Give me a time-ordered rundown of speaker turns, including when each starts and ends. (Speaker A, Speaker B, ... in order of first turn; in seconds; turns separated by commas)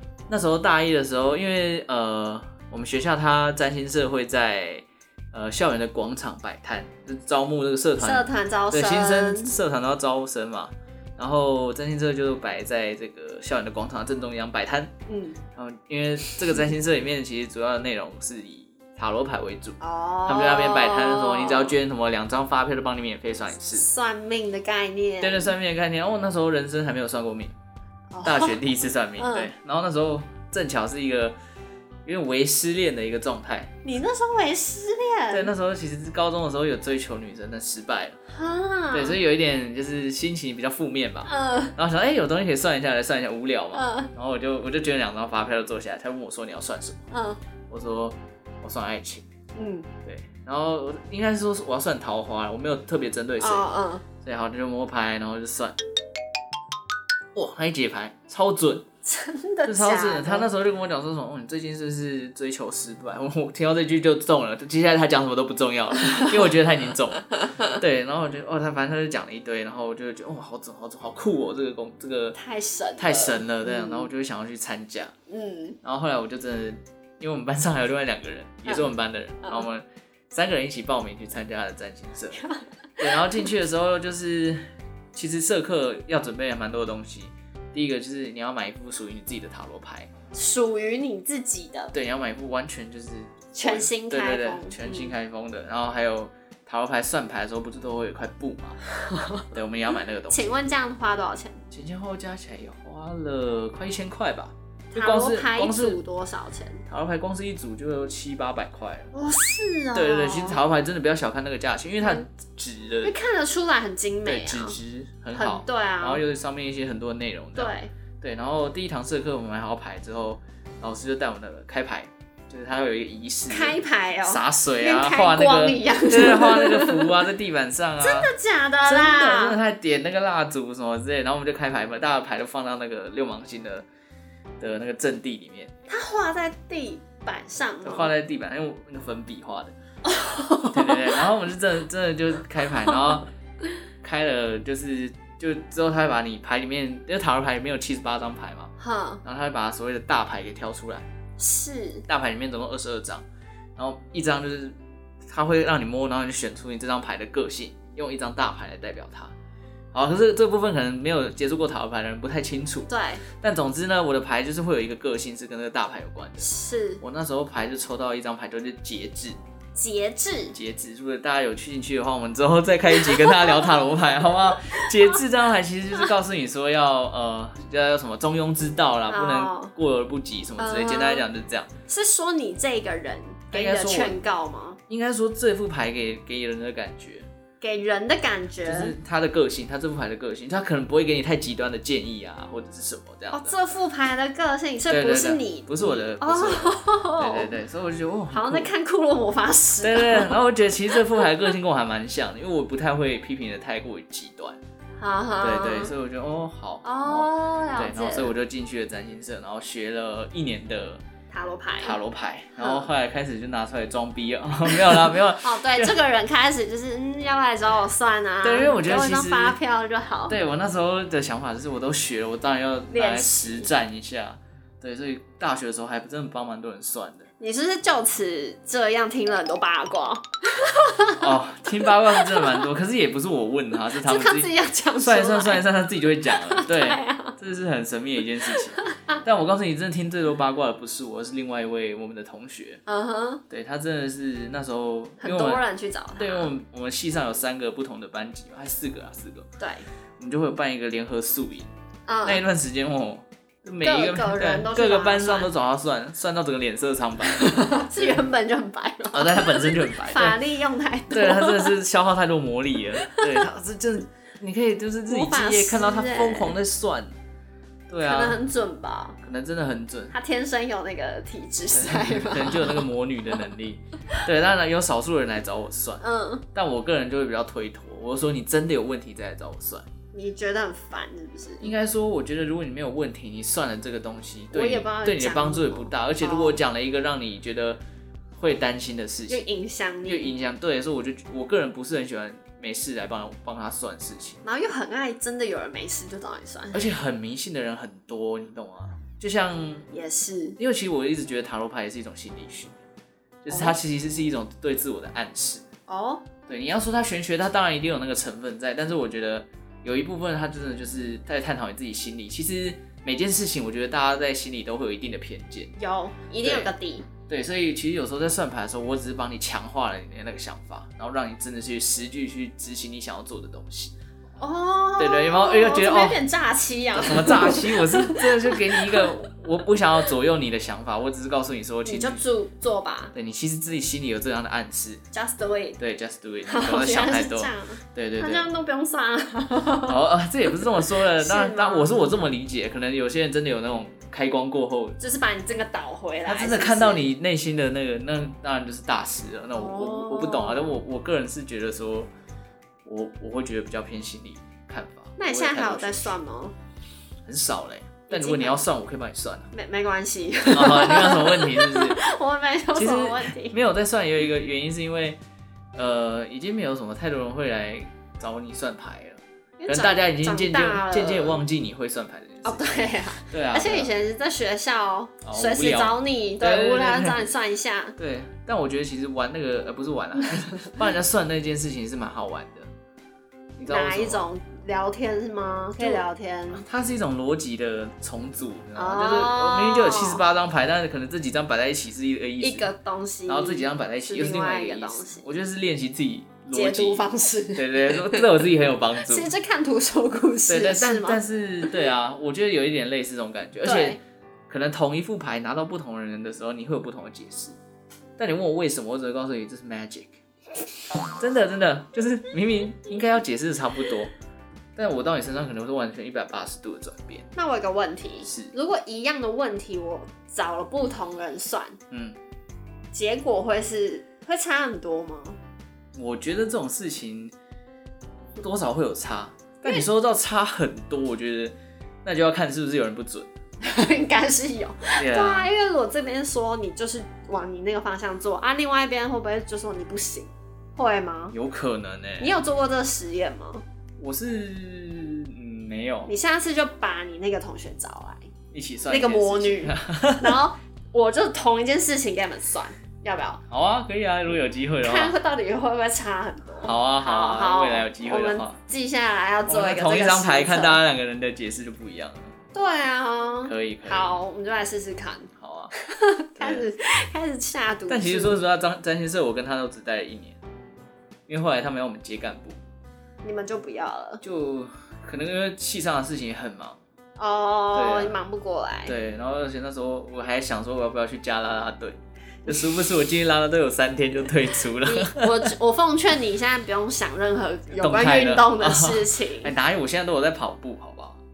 Speaker A: 0.3-14.9, Speaker B: 8.0-9.6, Speaker B: 15.1-15.4, Speaker A: 15.6-23.9, Speaker B: 19.8-21.8, Speaker B: 23.7-25.5, Speaker A: 25.2-27.5, Speaker B: 28.1-28.6, Speaker A: 28.2-31.4, Speaker B: 29.2-29.5, Speaker A: 32.1-33.7, Speaker B: 33.8-35.5, Speaker A: 35.3-38.2, Speaker B: 38.3-39.2, Speaker A: 38.9-47.1, Speaker B: 41.3-41.8, Speaker B: 43.7-44.1, Speaker B: 47.1-47.4, Speaker A: 47.7-49.3, Speaker B: 49.5-49.9, Speaker A: 50.0-53.7, Speaker B: 53.4-54.0, Speaker A: 54.2-55.8, Speaker A: 57.4-58.9, Speaker B: 59.0-60.5, Speaker A: 59.7-72.4, Speaker B: 72.3-74.1, Speaker A: 73.0-75.1, Speaker B: 75.3-75.8, Speaker A: 75.8-82.4, Speaker B: 82.3-83.2, Speaker A: 83.0-84.6, Speaker A: 85.1-90.1, Speaker B: 90.3-91.9, Speaker A: 91.9-98.8, Speaker B: 93.5-95.1, Speaker B: 99.0-99.5, Speaker A: 99.5-100.5, Speaker B: 100.3-101.6, Speaker A: 101.7-106.0, Speaker B: 104.9-106.8, Speaker A: 106.9-109.1, Speaker B: 109.1-110.6, Speaker A: 109.9-113.2, Speaker B: 113.0-114.8, Speaker A: 114.2-128.3, Speaker B: 115.3-116.2, Speaker B: 117.6-117.9, Speaker B: 123.5-127.2, Speaker B: 128.0-129.6, Speaker A: 128.8-133.9, Speaker A: 134.6-135.7, Speaker B: 135.9-138.1, Speaker A: 137.8-139.7, Speaker B: 140.1-141.2, Speaker A: 140.7-143.3, Speaker A: 144.0-148.7, Speaker B: 148.8-149.2, Speaker A: 149.2-151.1, Speaker B: 151.4-152.1, Speaker A: 152.1-153.2, Speaker A: 153.8-154.8, Speaker A: 155.3-159.3, Speaker A: 159.9-166.5, Speaker B: 162.9-163.2, Speaker B: 166.4-167.0, Speaker A: 167.0-169.4, Speaker B: 169.8-170.6, Speaker A: 170.5-181.7, Speaker B: 173.2-173.5, Speaker B: 179.1-179.7, Speaker B: 180.6-181.2, Speaker B: 181.9-184.8, Speaker A: 183.5-184.2, Speaker A: 184.9-187.3, Speaker B: 187.6-188.9, Speaker A: 188.7-193.6, Speaker B: 193.3-197.5, Speaker A: 194.9-198.7, Speaker B: 198.3-201.2, Speaker A: 199.8-204.6, Speaker B: 205.0-205.9, Speaker A: 205.4-211.0, Speaker B: 206.8-208.3, Speaker B: 211.3-212.0, Speaker A: 211.8-215.9, Speaker B: 212.6-212.9, Speaker B: 214.7-220.4, Speaker A: 218.4-219.6, Speaker A: 220.3-227.3, Speaker B: 222.9-223.7, Speaker B: 227.4-231.3, Speaker A: 231.2-242.8, Speaker B: 231.9-232.7, Speaker B: 233.9-235.7, Speaker B: 236.3-237.4, Speaker B: 238.4-239.2, Speaker B: 242.9-243.4, Speaker A: 243.5-245.6, Speaker B: 245.2-246.5, Speaker A: 246.2-249.5, Speaker B: 249.6-249.9, Speaker A: 250.2-251.7, Speaker B: 252.1-252.4, Speaker A: 252.2-257.8, Speaker B: 253.8-255.5, Speaker B: 257.2-261.8, Speaker A: 259.1-260.4, Speaker A: 261.1-267.1, Speaker B: 263.1-263.4, Speaker B: 265.1-266.6, Speaker A: 267.9-268.4, Speaker B: 268.0-269.2, Speaker A: 269.2-270.1, Speaker B: 270.1-272.9, Speaker A: 271.7-279.9, Speaker B: 276.0-276.4, Speaker B: 280.1-281.7, Speaker A: 281.6-287.8, Speaker B: 284.5-286.6, Speaker A: 288.4-289.4, Speaker B: 289.3-290.4, Speaker A: 290.1-294.4, Speaker B: 294.4-296.8, Speaker A: 296.7-299.9, Speaker B: 299.9-300.6, Speaker A: 300.6-302.7, Speaker A: 303.4-305.6, Speaker B: 303.5-303.8, Speaker B: 305.9-306.2, Speaker A: 306.5-315.8, Speaker B: 315.8-317.1, Speaker A: 316.4-316.7, Speaker A: 317.3-323.9, Speaker B: 324.4-329.1, Speaker A: 325.0-326.2, Speaker A: 326.9-332.2, Speaker B: 331.9-333.1, Speaker A: 333.1-335.0, Speaker B: 335.1-335.8, Speaker A: 335.8-338.5, Speaker B: 336.5-342.3, Speaker A: 339.8-345.0, Speaker B: 345.0-347.1, Speaker A: 346.3-352.1, Speaker B: 349.5-350.8, Speaker A: 352.9-356.2, Speaker B: 355.2-356.6, Speaker A: 357.3-359.5, Speaker B: 358.1-358.6, Speaker B: 359.5-363.6, Speaker A: 360.5-362.0, Speaker A: 362.8-365.2, Speaker A: 365.8-373.9, Speaker B: 369.6-371.4, Speaker B: 372.4-378.0, Speaker A: 375.2-377.3, Speaker A: 378.0-382.7, Speaker A: 383.6-384.3, Speaker B: 383.7-386.7, Speaker A: 385.8-392.7, Speaker B: 388.8-390.2, Speaker B: 392.4-395.3, Speaker A: 393.3-399.3, Speaker B: 396.5-398.4, Speaker B: 399.0-401.8, Speaker A: 400.5-404.0, Speaker B: 403.6-404.0, Speaker A: 404.5-407.6, Speaker A: 408.2-410.2, Speaker A: 411.1-414.1, Speaker A: 414.8-417.3, Speaker B: 417.4-421.8, Speaker A: 418.2-418.5, Speaker A: 421.9-422.2, Speaker B: 422.9-425.4, Speaker A: 425.9-427.3, Speaker A: 428.4-431.5, Speaker A: 432.1-433.3, Speaker B: 433.6-441.4, Speaker A: 434.9-435.5, Speaker A: 441.3-442.4, Speaker B: 442.2-443.6, Speaker A: 444.0-446.1, Speaker B: 446.1-448.3, Speaker A: 448.5-450.4, Speaker B: 448.9-453.4, Speaker A: 453.5-455.1, Speaker B: 454.8-460.8, Speaker A: 456.6-458.6, Speaker A: 459.5-462.4, Speaker B: 462.5-468.4, Speaker A: 463.4-464.1, Speaker A: 465.4-465.7, Speaker A: 466.4-466.7, Speaker A: 467.9-470.4, Speaker A: 471.3-472.6, Speaker B: 473.2-474.2, Speaker A: 474.2-476.8, Speaker B: 477.2-478.9, Speaker A: 477.7-478.1, Speaker A: 478.9-485.5, Speaker B: 484.7-489.5, Speaker A: 487.8-491.2